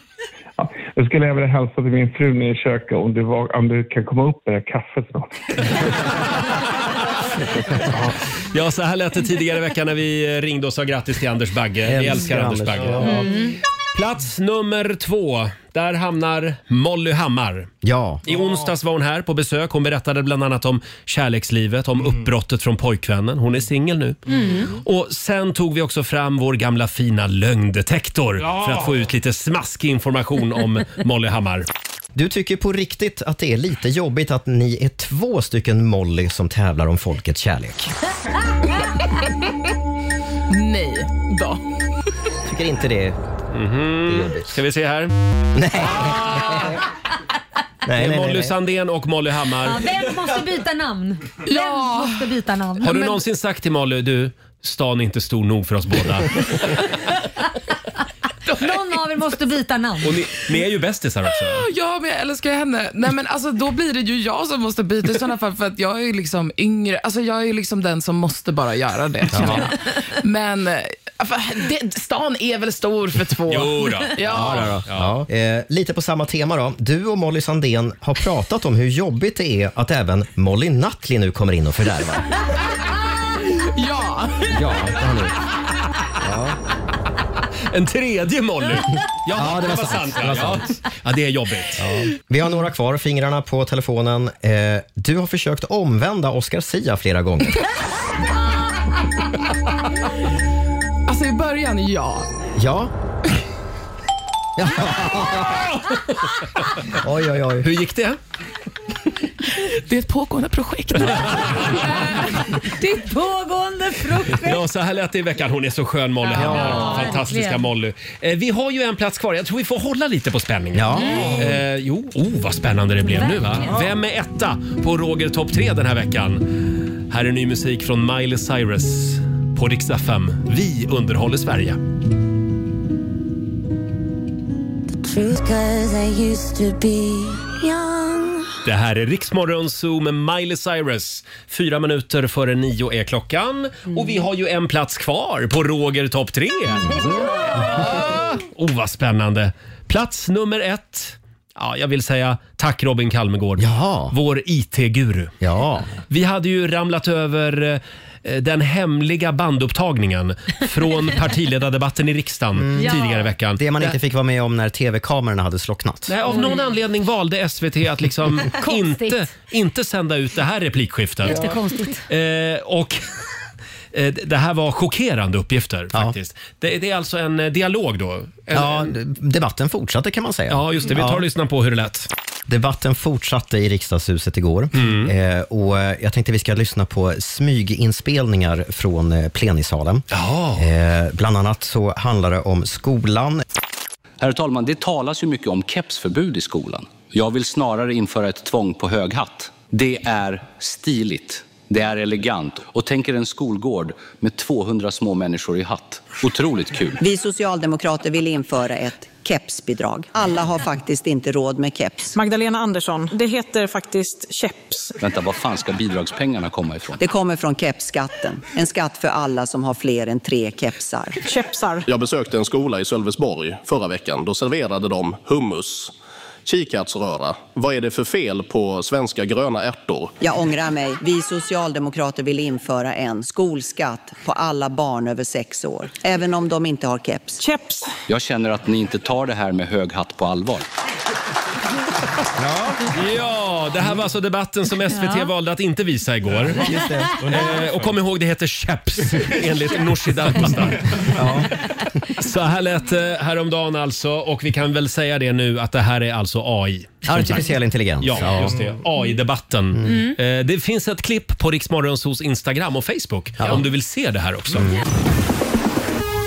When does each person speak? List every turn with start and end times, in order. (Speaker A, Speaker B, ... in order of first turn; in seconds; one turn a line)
Speaker A: 0.6-6.1
Speaker A: 7.7-8.1
Speaker B: 8.5-13.2
Speaker C: 11.8-13.3
Speaker D: 13.0-13.6
Speaker B: 13.9-17.7
Speaker C: 17.8-18.2
Speaker B: 18.3-31.7
Speaker D: 24.3-24.7
Speaker C: 32.1-37.9
Speaker E: 40.5-41.6
Speaker C: 42.4-43.2
Speaker B: 43.5-45.1
Speaker C: 44.1-44.5
Speaker C: 45.5-46.7
Speaker B: 45.8-46.7
Speaker C: 47.9-48.5
Speaker B: 47.9-49.9
Speaker D: 49.6-53.2
Speaker E: 51.5-52.3
Speaker B: 52.8-56.4
Speaker D: 58.6-60.2
Speaker B: 60.0-61.7
Speaker E: 61.5-74.8
Speaker C: 69.3-69.6
Speaker B: 73.5-75.2
Speaker C: 74.2-82.3
Speaker E: 83.3-84.6
Speaker C: 84.5-85.3
Speaker C: 86.2-86.6
Speaker B: 87.7-91.8
Speaker C: 89.3-90.7
Speaker C: 91.8-97.6
Speaker E: 101.1-102.3
Speaker C: 102.6-102.9
Speaker C: 104.6-105.7
Speaker C: 106.9-107.7
Speaker B: 107.6-108.2
Speaker E: 109.6-111.7
Speaker D: 111.7-114.6
Speaker B: 114.3-131.8
Speaker D: 116.3-117.6
Speaker C: 116.3-117.0
Speaker C: 120.7-121.5
Speaker D: 120.9-121.6
Speaker D: 123.0-123.9
Speaker F: 135.0-138.4
Speaker B: 138.7-155.3
Speaker C: 153.6-154.2
Speaker C: 155.4-155.9
Speaker B: 156.1-163.9
Speaker C: 162.6-166.2
Speaker D: 162.8-163.3
Speaker B: 166.1-171.4
Speaker D: 166.3-166.7
Speaker D: 168.5-169.2
Speaker D: 171.2-172.0
Speaker B: 172.1-173.0
Speaker B: 173.9-178.9
Speaker C: 178.5-181.3
Speaker B: 180.5-182.1
Speaker C: 182.5-193.4
Speaker B: 184.7-185.1
Speaker B: 190.1-190.6
Speaker G: 194.2-207.0
Speaker H: 207.0-212.1
Speaker I: 212.1-214.9
Speaker G: 215.0-217.0
Speaker H: 217.0-221.2
Speaker I: 221.2-221.9
Speaker J: 221.9-225.9
Speaker J: 226.5-230.2
Speaker H: 230.2-237.4
Speaker I: 237.4-237.9
Speaker G: 238.1-240.7
Speaker C: 242.4-242.8
Speaker B: 242.9-251.1
Speaker C: 246.4-247.2
Speaker C: 251.1-251.5
Speaker B: 252.2-257.4
Speaker C: 257.1-258.6
Speaker B: 258.0-264.7
Speaker C: 259.7-260.0
Speaker D: 259.9-260.1
Speaker C: 264.6-264.8